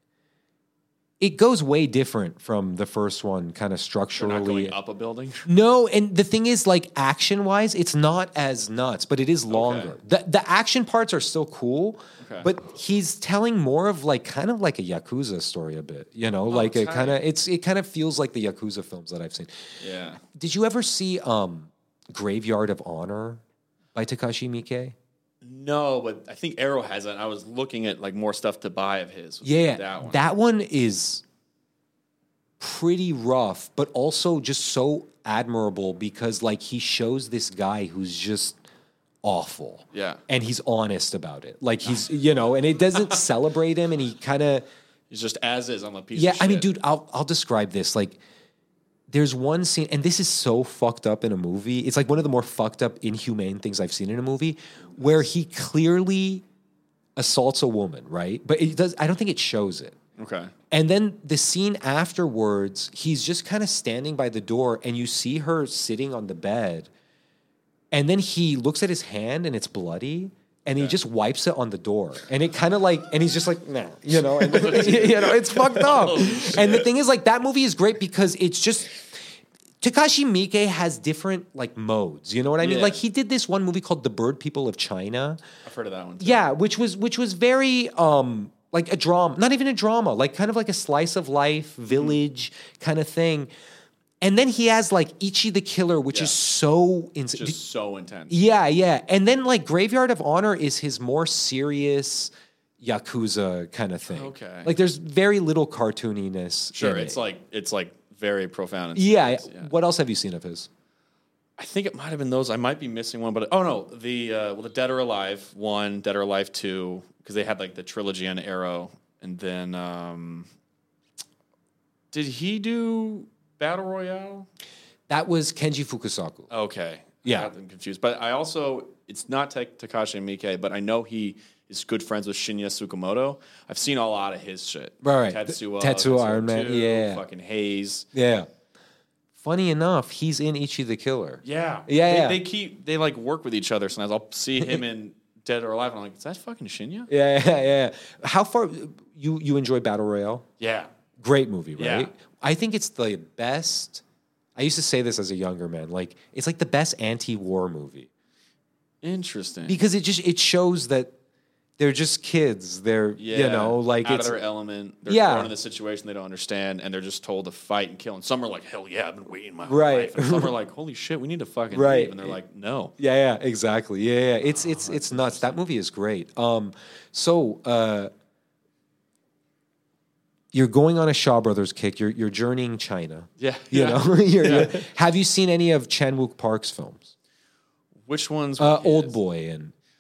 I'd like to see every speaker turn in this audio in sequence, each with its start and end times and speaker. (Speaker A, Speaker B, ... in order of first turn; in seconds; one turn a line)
Speaker A: 1.2-4.8
Speaker B: 4.2-5.5
Speaker A: 5.5-19.7
Speaker B: 9.5-9.9
Speaker B: 12.2-12.5
Speaker B: 16.5-17.2
Speaker B: 19.8-20.2
Speaker A: 20.3-23.4
Speaker A: 23.9-24.9
Speaker B: 25.4-30.2
Speaker A: 29.4-31.2
Speaker A: 32.6-38.6
Speaker A: 39.2-44.7
Speaker B: 39.9-40.2
Speaker B: 45.1-46.7
Speaker A: 46.1-48.2
Speaker A: 49.1-56.4
Speaker A: 57.2-60.0
Speaker B: 60.2-60.5
Speaker A: 60.7-66.9
Speaker A: 67.9-79.0
Speaker B: 70.7-71.0
Speaker B: 74.4-76.9
Speaker A: 79.8-85.4
Speaker B: 82.6-83.0
Speaker B: 85.7-86.5
Speaker A: 86.2-93.5
Speaker B: 91.9-92.2
Speaker A: 94.2-97.6
Speaker B: 96.1-96.4
Speaker B: 97.3-98.4
Speaker A: 98.3-107.2
Speaker B: 104.1-104.7
Speaker B: 106.7-109.7
Speaker A: 109.0-110.7
Speaker B: 111.6-120.5
Speaker B: 122.1-124.5
Speaker A: 125.1-126.5
Speaker B: 126.5-138.1
Speaker A: 127.2-127.5
Speaker A: 135.0-137.2
Speaker A: 138.1-138.5
Speaker A: 139.4-142.4
Speaker B: 141.4-147.1
Speaker A: 147.1-150.5
Speaker B: 150.6-150.9
Speaker A: 151.2-154.0
Speaker B: 151.8-152.1
Speaker A: 154.6-158.1
Speaker B: 159.0-159.8
Speaker A: 159.7-161.1
Speaker A: 161.8-164.4
Speaker B: 163.2-172.9
Speaker A: 165.1-165.5
Speaker A: 169.7-170.6
Speaker A: 171.7-172.4
Speaker A: 173.0-178.1
Speaker B: 174.4-175.6
Speaker A: 180.5-187.1
Speaker B: 183.4-184.8
Speaker B: 188.1-189.2
Speaker A: 188.6-189.7